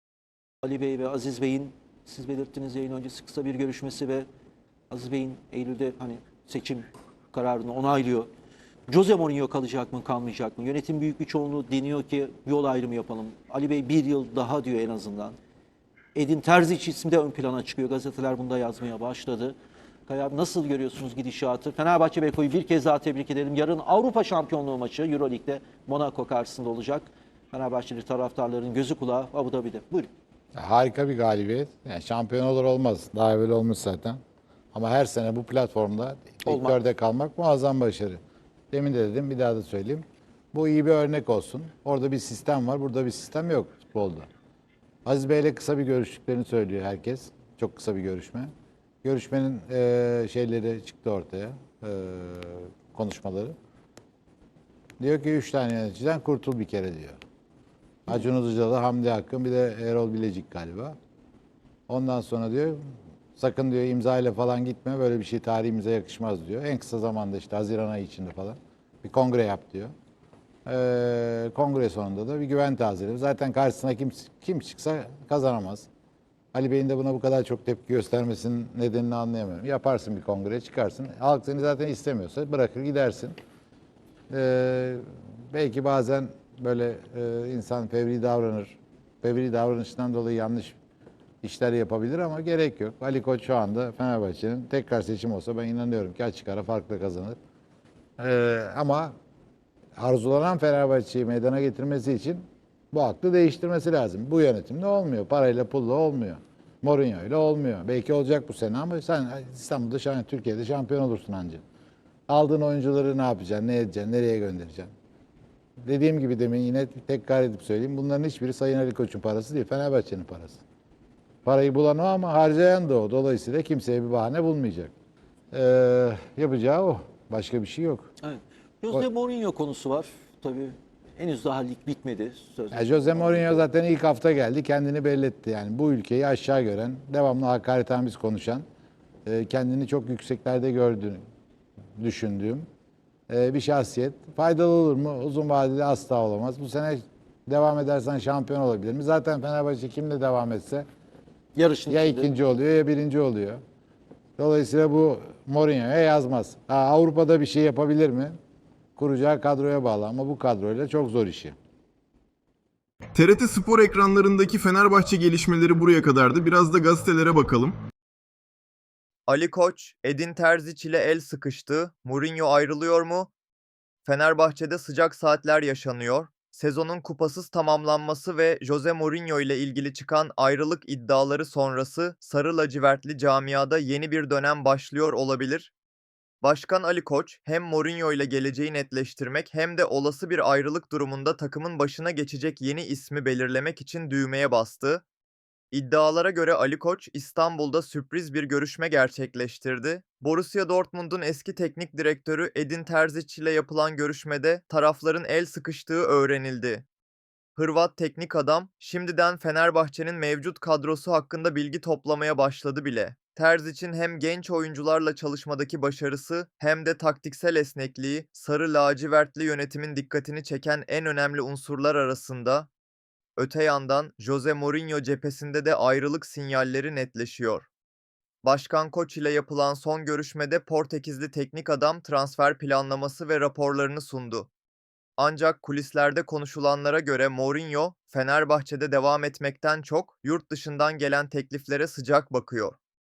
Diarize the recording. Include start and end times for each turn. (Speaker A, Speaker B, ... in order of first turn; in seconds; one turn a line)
Speaker A: 0.6-4.2
Speaker A: 4.9-8.3
Speaker A: 8.9-15.4
Speaker A: 16.1-19.5
Speaker A: 20.1-30.1
Speaker B: 30.5-34.2
Speaker B: 34.7-38.2
Speaker A: 36.4-36.8
Speaker B: 38.7-44.3
Speaker B: 45.0-48.5
Speaker B: 49.0-53.5
Speaker B: 55.0-57.2
Speaker B: 58.1-60.9
Speaker B: 61.9-62.8
Speaker B: 63.4-69.9
Speaker B: 70.7-75.9
Speaker B: 76.5-83.3
Speaker B: 84.3-90.8
Speaker B: 91.4-97.4
Speaker B: 98.2-99.1
Speaker B: 100.0-111.6
Speaker B: 112.3-114.9
Speaker B: 115.8-120.6
Speaker B: 121.5-124.9
Speaker B: 125.5-128.1
Speaker A: 128.2-133.6
Speaker B: 132.7-138.6
Speaker B: 139.3-141.2
Speaker B: 142.0-142.7
Speaker B: 143.3-150.8
Speaker A: 151.6-152.3
Speaker B: 151.9-153.6
Speaker B: 154.4-158.3
Speaker B: 159.0-161.6
Speaker C: 163.1-167.8
Speaker D: 169.3-173.3
Speaker D: 174.1-185.7
Speaker D: 186.4-195.1
Speaker D: 195.7-206.8
Speaker D: 207.6-222.7
Speaker D: 223.4-227.7
Speaker D: 228.4-234.5
Speaker D: 235.2-242.8